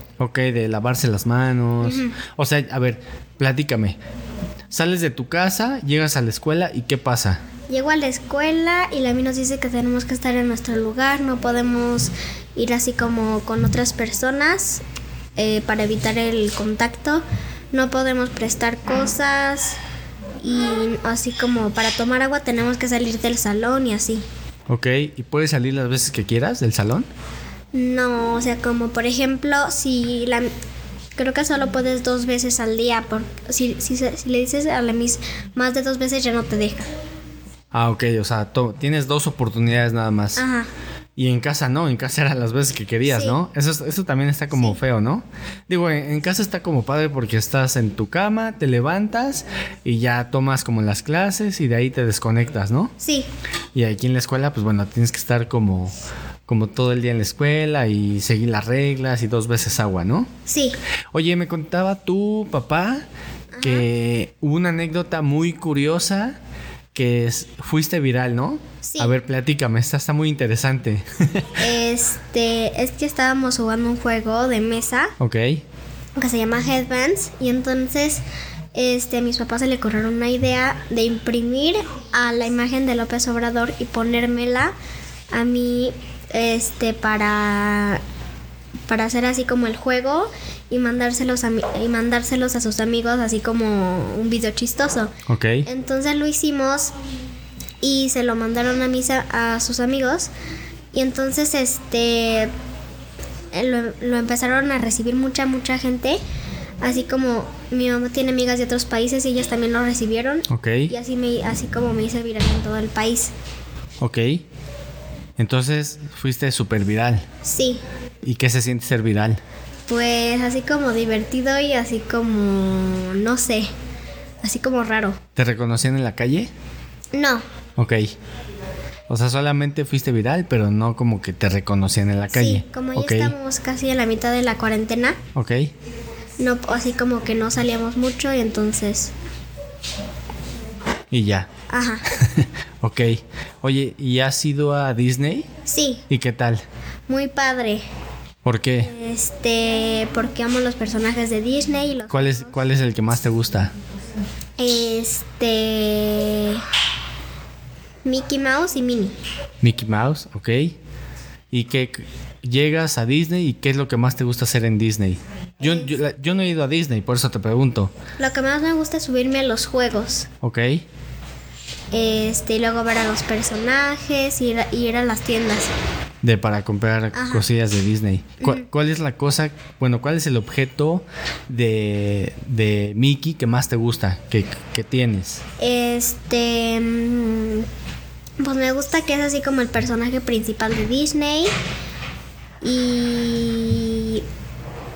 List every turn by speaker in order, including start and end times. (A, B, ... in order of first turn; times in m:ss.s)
0:00.2-0:04.0 A
0:01.8-0:02.2 B
0:04.7-0:07.4 A
0:07.7-0:14.8 B
0:15.4-0:19.8 B
0:20.4-0:24.2 B
0:24.7-0:27.1 A
0:27.7-0:30.5 B
0:31.2-0:36.9 B
0:37.7-0:40.4 A
0:40.4-0:40.7 B
0:41.2-0:52.9 A
0:43.0-0:43.4 B
0:53.0-0:53.3 B
0:53.7-0:55.9 A
0:56.5-1:00.3 A
1:00.5-1:00.8 B
1:01.1-1:03.0 A
1:03.5-1:03.8 B
1:03.6-1:06.4 A
1:06.9-1:11.5 A
1:08.8-1:09.1 B
1:11.6-1:15.1 B
1:15.2-1:15.6 A
1:16.2-1:24.7 B
1:25.3-1:28.0 B
1:28.9-1:35.1 B
1:35.3-1:35.7 A
1:35.6-1:36.9 B
1:37.8-1:40.3 B
1:40.9-1:42.5 B
1:43.5-1:46.2 B
1:46.8-1:53.3 B
1:50.5-1:50.9 A
1:54.0-1:54.4 A
1:55.4-1:57.2 A
1:57.4-1:57.8 B
1:58.2-1:59.4 A
1:59.9-2:03.7 B
2:04.4-2:05.2 B
2:05.4-2:06.5 A
2:07.1-2:07.4 B
2:07.8-2:08.1 A
2:09.1-2:13.3 A
2:12.3-2:15.2 B
2:15.3-2:15.7 A
2:16.4-2:19.1 B
2:21.1-2:21.5 A
2:21.7-2:22.0 B
2:22.1-2:25.5 A
2:25.6-2:26.0 B
2:26.1-2:26.6 A
2:27.1-2:27.8 B
2:28.4-2:28.9 A
2:28.8-2:32.4 B
2:32.1-2:33.7 A
2:34.6-2:36.6 B
2:38.0-2:39.2 B
2:39.6-2:40.8 A
2:41.5-2:47.9 A
2:45.6-2:46.0 B
2:48.2-2:50.3 B
2:50.4-2:50.8 A
2:51.9-2:55.7 B
2:56.2-3:05.4 A
2:57.1-2:57.4 B
3:05.6-3:07.7 B
3:08.4-3:11.5 B
3:12.6-3:14.2 B